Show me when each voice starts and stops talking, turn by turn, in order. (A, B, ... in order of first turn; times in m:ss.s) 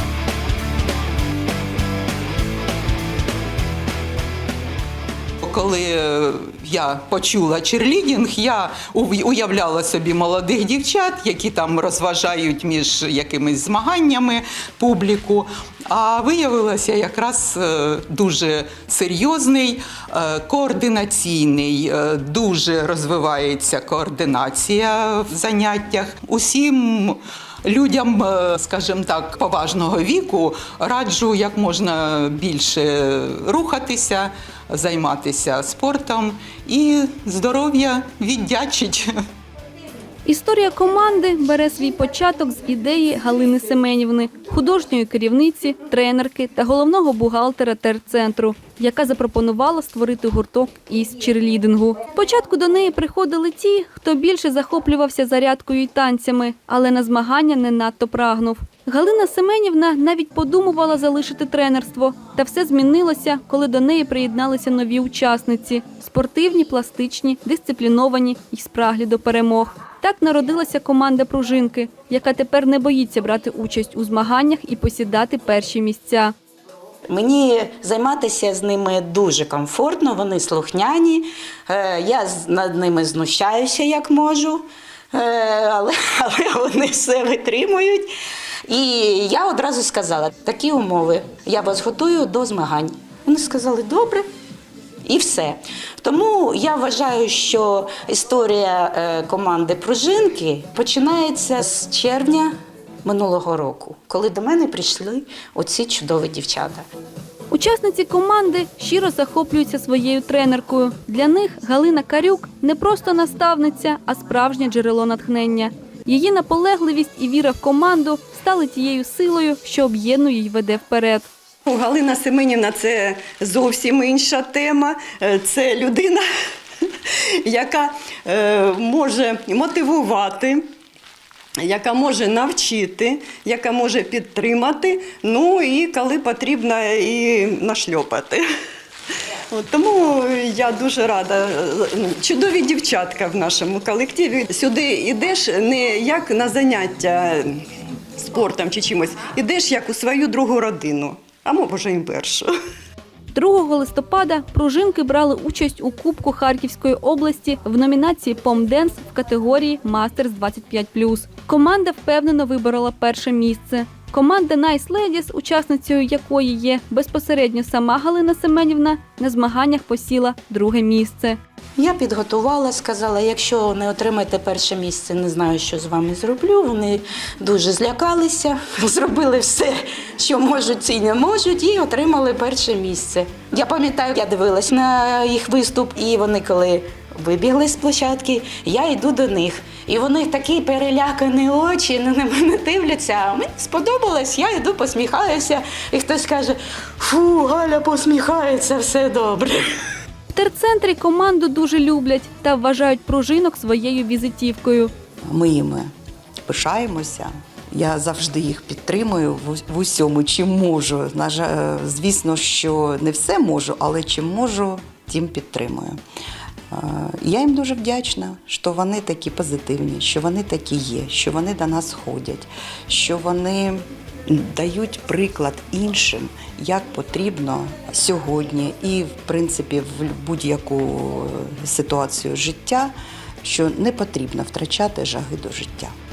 0:05.4-0:39.1 A
0:40.2-1:16.3 B
1:17.1-1:28.1 C
1:28.7-1:34.2 C
1:35.0-1:42.5 C
1:43.0-1:46.8 C
1:47.5-2:01.3 B
2:01.6-2:06.2 D
2:06.8-2:10.7 D
2:11.6-2:18.4 D
2:19.1-2:27.6 D
2:28.2-2:32.5 D
2:33.3-2:51.4 B
2:51.8-3:19.6 C
3:20.3-3:24.9 B
3:25.3-3:25.9 E
3:26.4-3:36.0 E
3:36.7-3:55.9 E